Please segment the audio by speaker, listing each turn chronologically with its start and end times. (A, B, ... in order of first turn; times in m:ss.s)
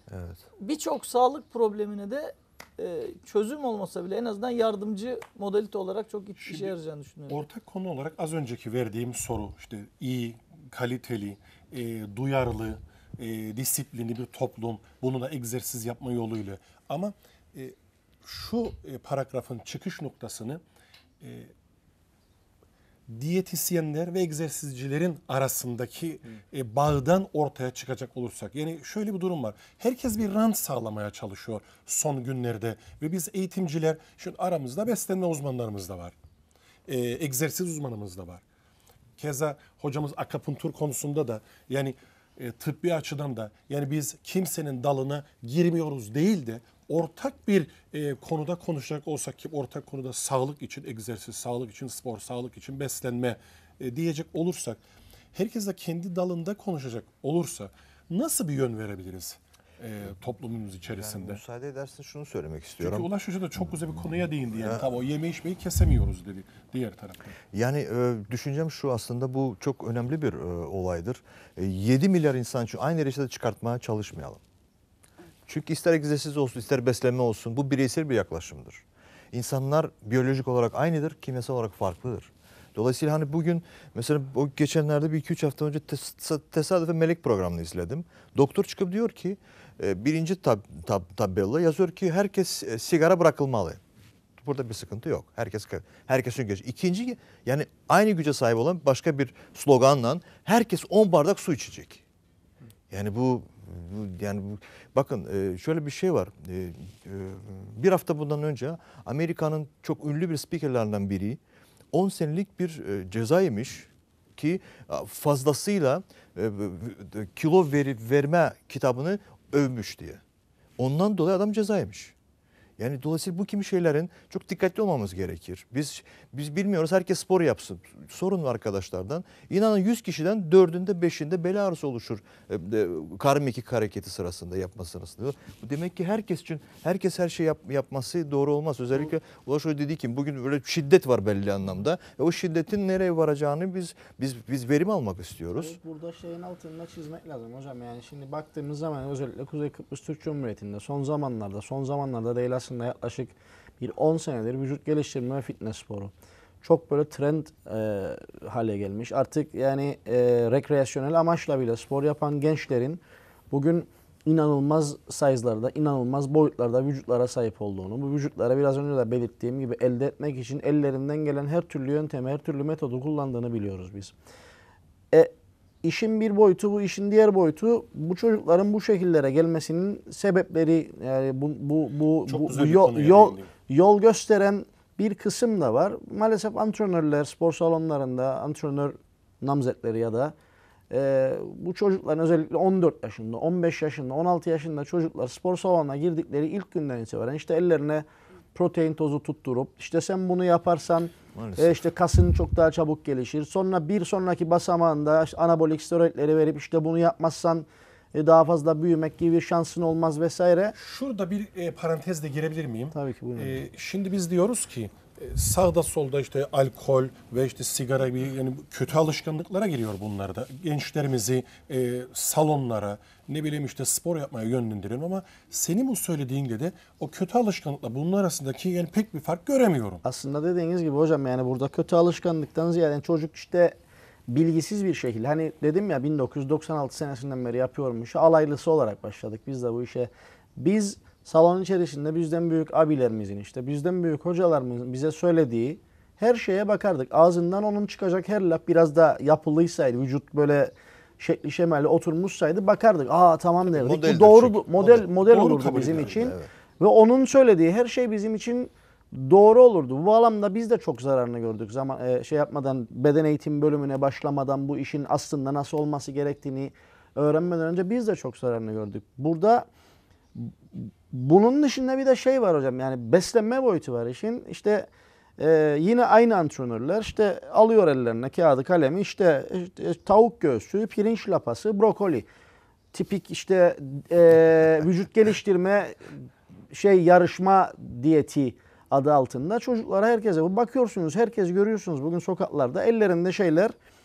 0:00.1-0:00.5 A
0:00.6-0:07.4 B
0:06.4-0:06.7 C
0:07.3-0:20.6 C
0:21.2-0:21.5 C
0:23.1-0:36.1 C
0:36.9-0:38.4 C
0:39.2-0:54.8 C
0:55.3-1:01.4 C
1:00.9-1:03.1 A
1:02.8-1:07.4 C
1:04.5-1:04.8 A
1:07.5-1:14.4 A
1:15.5-1:33.8 A
1:34.4-1:42.0 A
1:42.9-1:51.4 A
1:51.9-2:00.2 A
2:00.8-2:02.1 A
2:02.8-2:25.8 A
2:25.6-2:54.1 D
2:55.8-3:10.3 D
3:02.3-3:03.5 C
3:10.9-3:30.7 D
3:21.4-3:21.8 A
3:30.8-3:50.0 C
3:32.9-3:33.6 D
3:50.0-3:53.8 D
3:54.3-4:29.7 D
4:13.7-4:14.6 A
4:14.8-4:16.3 C
4:16.0-4:16.5 A
4:30.3-4:42.3 D
4:42.9-4:46.2 D
4:46.7-4:53.7 D